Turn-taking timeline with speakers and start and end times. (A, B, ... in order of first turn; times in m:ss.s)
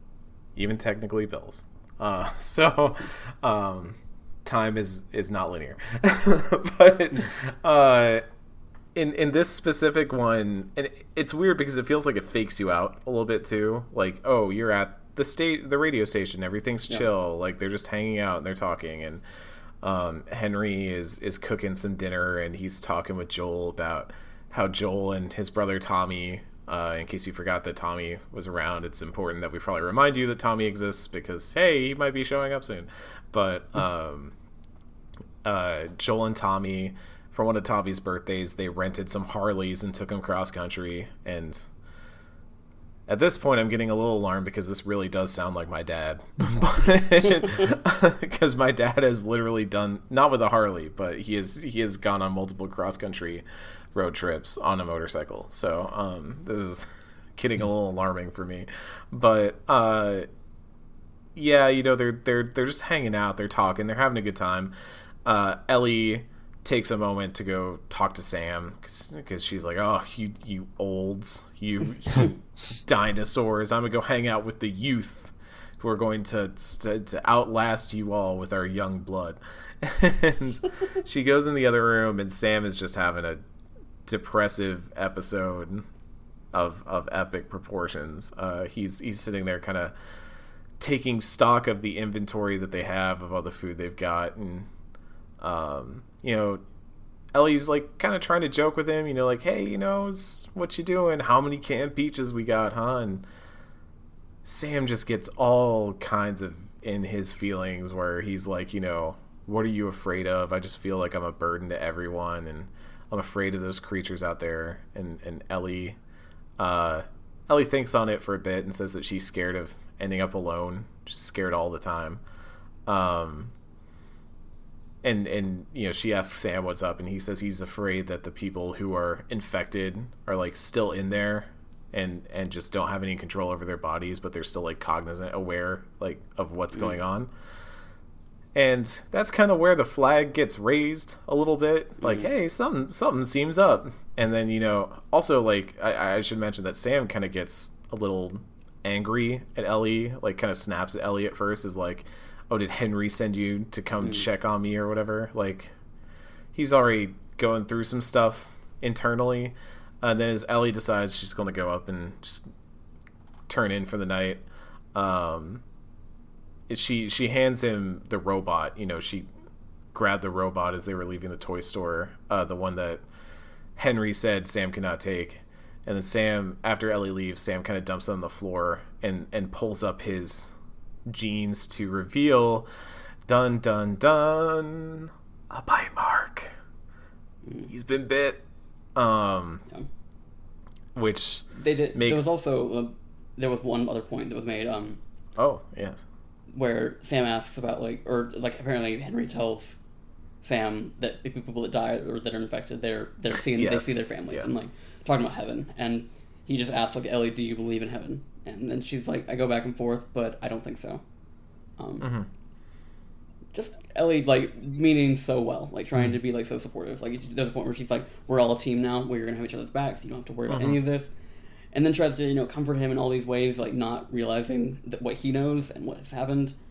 0:00.6-0:08.2 A
0:08.9-0:19.2 A
0:19.8-0:34.4 A
0:35.4-0:41.7 A
0:43.1-1:00.3 A
1:01.4-1:04.7 A
1:05.2-1:23.4 A
1:24.1-1:25.8 A
1:26.5-1:29.9 A
1:30.8-1:34.7 A
1:35.4-1:36.6 A
1:37.3-1:43.2 A
1:44.4-1:56.0 A
1:56.6-2:02.2 A
2:02.9-2:03.5 A
2:05.0-2:17.3 A
2:18.6-2:35.7 A
2:22.0-2:22.3 B
2:36.5-2:42.5 A
2:43.5-2:44.4 A
2:44.9-2:45.6 A
2:46.7-2:49.3 A
2:49.9-2:53.0 A
2:53.8-3:00.5 A
3:01.1-3:02.7 A
3:03.3-3:06.6 A
3:07.4-3:07.7 B
3:07.6-3:08.4 A
3:08.9-3:09.6 A
3:10.9-3:12.3 A
3:11.5-3:15.0 B
3:15.4-3:16.0 A
3:16.5-3:19.8 B
3:20.4-3:31.0 B
3:23.5-3:24.5 A
3:31.8-3:32.1 B
3:32.0-3:32.3 A
3:33.5-3:41.1 B
3:40.5-3:40.8 A
3:41.7-3:46.6 B